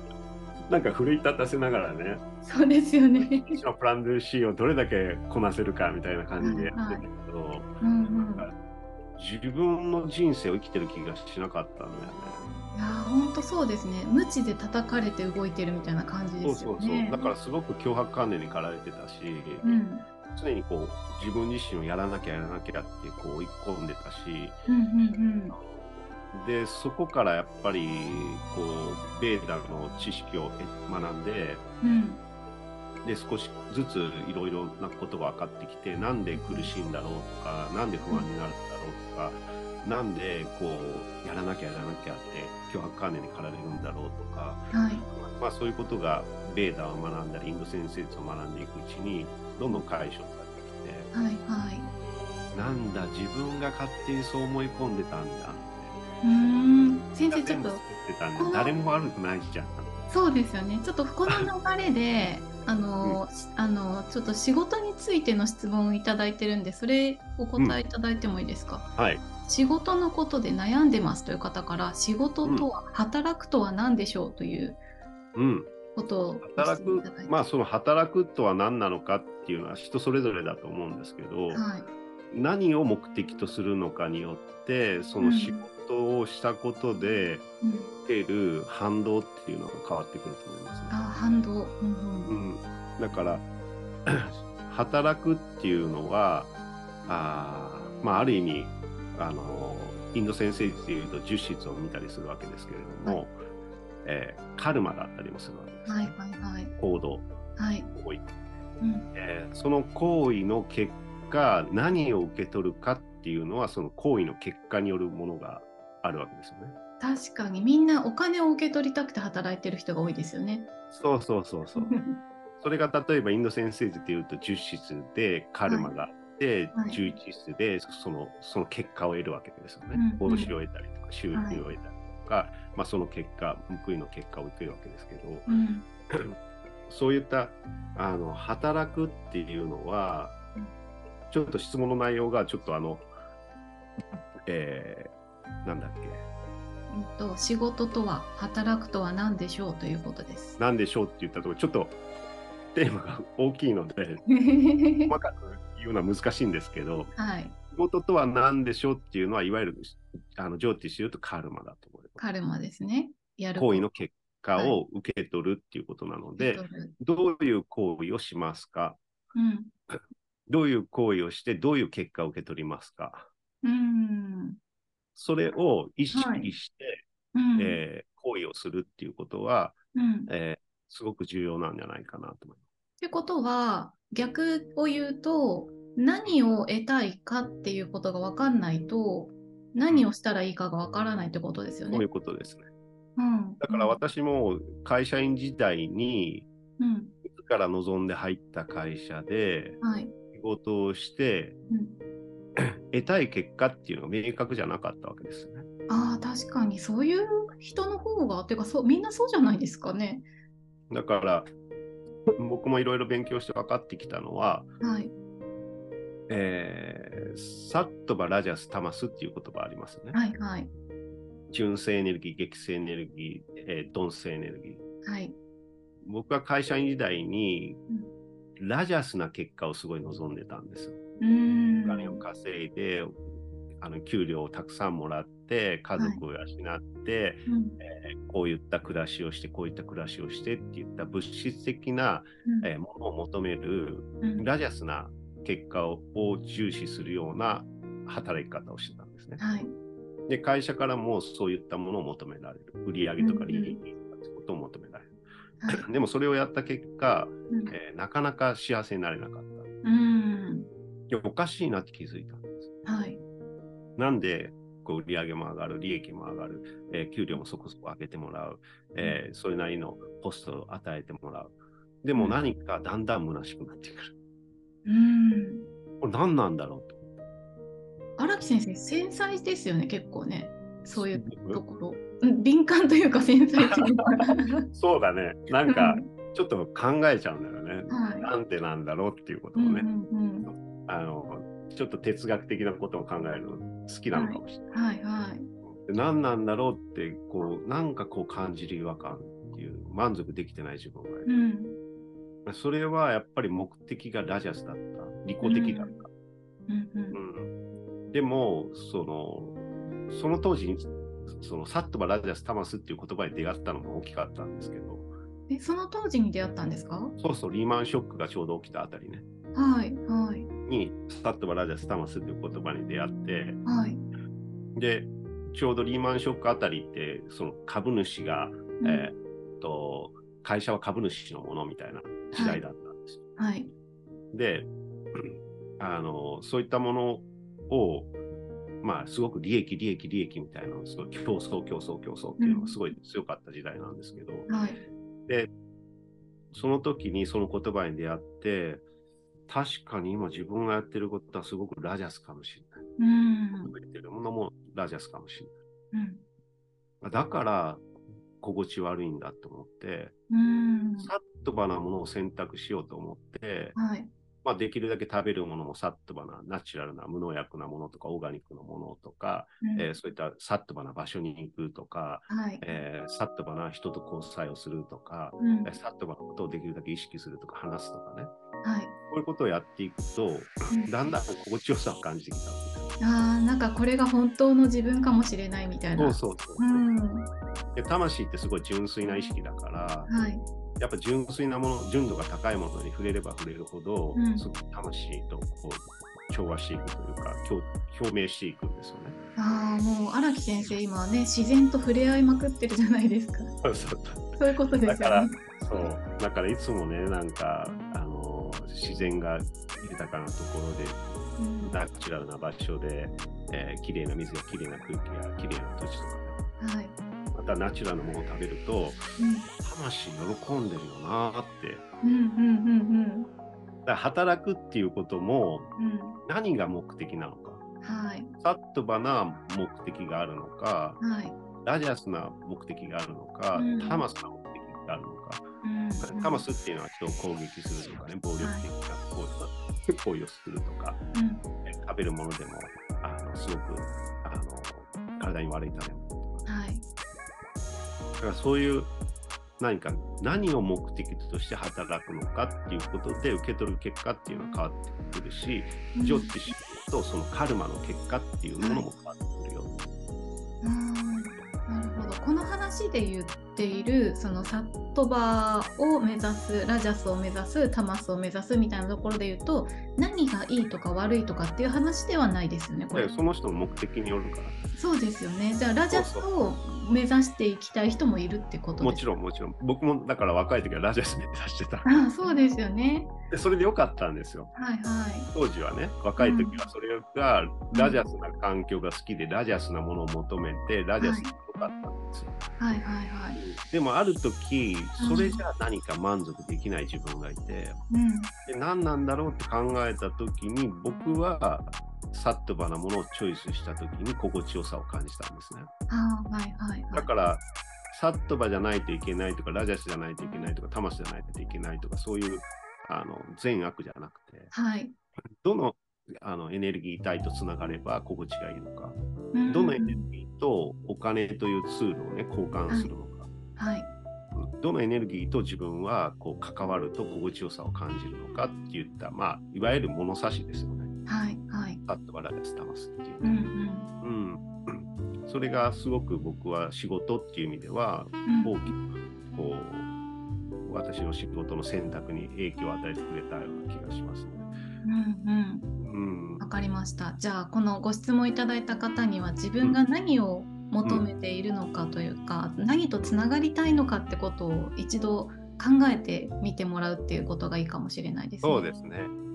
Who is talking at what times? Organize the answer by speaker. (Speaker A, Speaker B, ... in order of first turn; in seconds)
Speaker A: 0.7-2.2, 3.2-8.6, 9.2-12.5, 16.4-19.8, 20.3-24.6, 25.5-31.6, 33.0-51.1, 52.5-56.0, 57.3-60.0, 69.0-69.2, 75.3-75.7, 76.4-81.7, 82.3-87.4, 88.0-91.0, 92.3-93.5, 94.1-96.5, 97.1-103.3, 104.0-106.2, 106.8-107.3, 107.9-108.2, 109.2-116.8, 120.9-122.0, 122.6-135.5, 136.9-140.4, 141.3-143.1, 144.5-145.1, 145.7-146.2, 150.6-152.0, 152.7-154.2, 155.1-157.1, 157.7-162.2, 163.6-169.0, 170.5-173.3, 175.2-177.0, 177.6-182.6, 191.9-192.7, 193.6-196.5, 197.2-199.8, 200.3-201.6, 202.6-205.7, 210.9-211.5, 212.4-214.7, 216.3-220.2, 221.5-224.8, 226.0-227.8, 228.6-231.0, 231.8-233.1, 233.8-249.4, 250.3-255.1, 255.7-259.7, 261.1-262.7, 264.0-274.1, 276.0-277.0, 280.9-281.6, 283.6-289.9, 290.5-294.6, 295.7-301.3, 302.5-306.1, 307.1-307.5, 308.1-315.1, 317.2-319.2, 320.7-323.6, 324.8-333.2, 334.3-338.1, 338.8-344.5, 346.5-348.8, 349.5-352.9, 353.6-355.5, 357.0-357.9, 358.4-360.1, 361.0-363.8, 364.4-378.3, 379.1-382.9, 386.0-386.8, 387.8-390.1, 390.8-399.2, 403.6-411.0, 411.6-416.4, 417.3-419.1, 419.6-421.8, 423.9-425.7, 426.2-427.6, 428.4-431.0, 431.6-435.5, 436.0-441.0, 441.6-446.5, 448.2-448.9, 449.6-459.8, 472.9-474.6, 475.9-476.3, 478.8-482.1, 483.3-484.5, 485.3-492.4, 493.4-497.8, 498.4-505.7, 506.9-514.5, 515.4-523.3, 524.4-530.9, 531.9-533.4, 534.0-539.9, 540.6-544.5, 545.8-546.4, 558.4-559.1
Speaker B: 2.4-3.6, 6.4-7.1, 7.8-8.5, 12.8-17.3, 19.6-20.1, 24.7-25.6, 31.8-32.2, 36.4-36.7, 44.7-45.1, 51.1-51.9, 56.2-57.8, 58.4-58.7, 60.1-68.9, 69.5-74.8, 76.0-77.3, 81.5-81.9, 85.2-85.7, 87.6-87.9, 90.9-92.3, 105.9-106.7, 107.6-107.9, 108.8-109.1, 117.0-120.7, 121.8-122.2, 125.7-125.9, 126.8-127.0, 129.9-130.5, 131.3-131.6, 135.5-135.8, 146.9-150.6, 154.3-155.2, 157.2-157.6, 162.2-163.9, 166.4-166.9, 169.3-169.7, 173.6-174.6, 176.1-176.6, 177.3-177.8, 179.9-180.3, 183.0-192.1, 193.2-194.0, 196.8-197.1, 199.8-200.1, 201.7-202.0, 205.9-210.3, 214.8-215.1, 220.1-220.7, 225.0-225.4, 231.2-232.2, 237.5-237.8, 249.4-249.7, 253.2-253.8, 257.5-257.8, 259.8-260.7, 262.9-263.2, 274.9-275.6, 278.2-284.7, 285.7-286.1, 287.9-288.3, 289.6-290.5, 294.1-295.5, 301.3-301.8, 305.4-306.0, 306.7-307.2, 315.5-317.1, 319.5-320.5, 323.6-324.0, 328.8-329.1, 332.3-332.6, 333.4-333.7, 342.4-342.7, 344.5-344.8, 353.0-353.7, 355.9-356.2, 360.3-361.1, 363.8-364.1, 369.6-369.9, 372.3-372.6, 375.4-375.7, 378.6-378.9, 383.0-387.3, 390.1-390.4, 394.1-394.5, 399.4-403.5, 404.4-405.9, 411.4-411.8, 416.6-417.0, 419.2-419.5, 422.0-423.3, 425.8-426.2, 427.8-428.3, 431.0-431.4, 433.6-434.1, 435.6-436.4, 438.4-438.7, 441.1-441.4, 446.5-446.8, 455.9-456.4, 458.6-458.9, 460.6-473.1, 474.8-479.1, 481.9-483.1, 484.5-485.3, 486.2-486.6, 487.7-488.0, 491.0-491.3, 492.6-493.4, 495.0-495.4, 497.9-498.3, 505.9-507.1, 514.5-515.0, 519.3-520.0, 523.6-523.9, 531.1-531.8, 533.2-533.9, 538.3-538.6, 544.8-545.7, 546.4-558.7